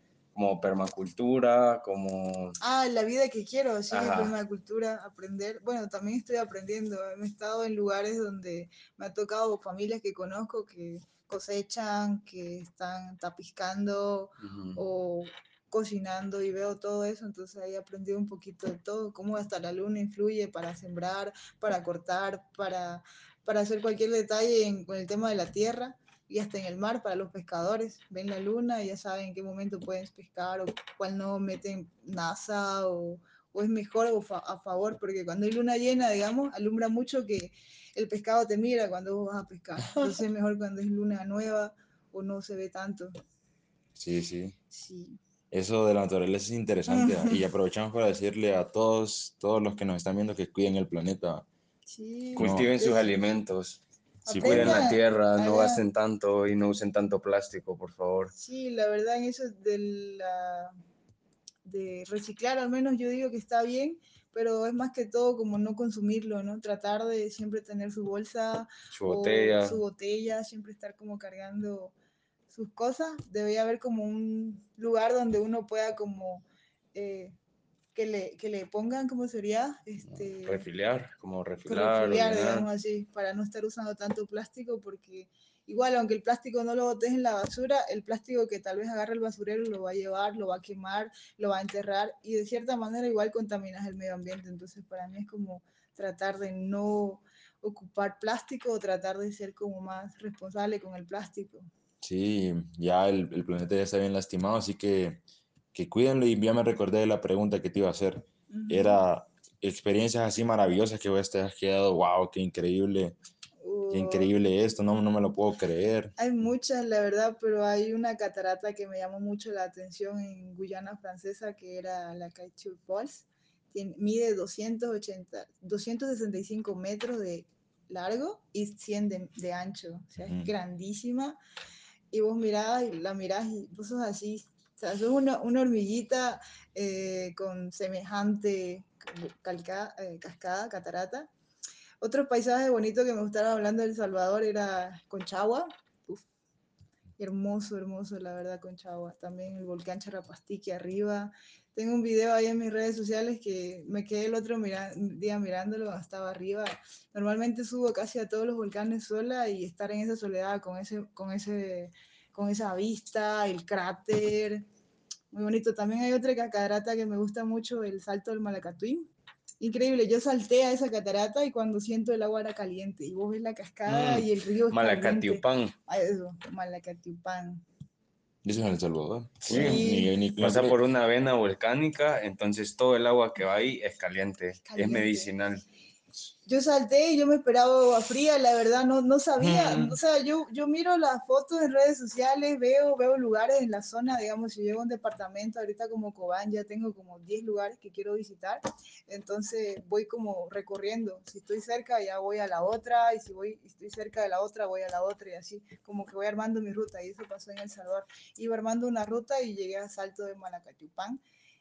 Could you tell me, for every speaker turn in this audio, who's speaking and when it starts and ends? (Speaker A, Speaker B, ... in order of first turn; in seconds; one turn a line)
Speaker A: 0.3-2.6
Speaker B: 2.6-43.1
Speaker A: 3.9-4.3
Speaker A: 14.4-14.8
Speaker C: 44.0-44.6
Speaker B: 44.7-45.2
Speaker C: 45.5-51.5
Speaker B: 46.9-47.5
Speaker B: 51.9-53.1
Speaker C: 52.4-52.7
Speaker A: 52.4-53.8
Speaker B: 54.3-55.8
Speaker C: 54.3-54.9
Speaker A: 54.4-58.3
Speaker B: 58.4-60.8
Speaker B: 61.6-71.9
Speaker A: 68.9-69.8
Speaker B: 72.5-77.4
Speaker B: 78.0-80.7
Speaker A: 80.1-82.7
Speaker B: 81.7-101.7
Speaker C: 102.0-105.2
Speaker C: 105.7-113.2
Speaker B: 108.5-109.0
Speaker B: 113.6-114.3
Speaker C: 113.9-116.2
Speaker B: 116.2-131.4
Speaker C: 130.2-130.5
Speaker B: 132.1-141.3
Speaker B: 142.0-146.3
Speaker B: 147.2-164.7
Speaker B: 165.3-177.6
Speaker A: 173.9-175.7
Speaker C: 178.4-180.8
Speaker A: 179.5-179.9
Speaker B: 179.6-180.1
Speaker A: 180.4-185.6
Speaker B: 184.7-185.3
Speaker B: 186.5-211.2
Speaker A: 189.4-190.0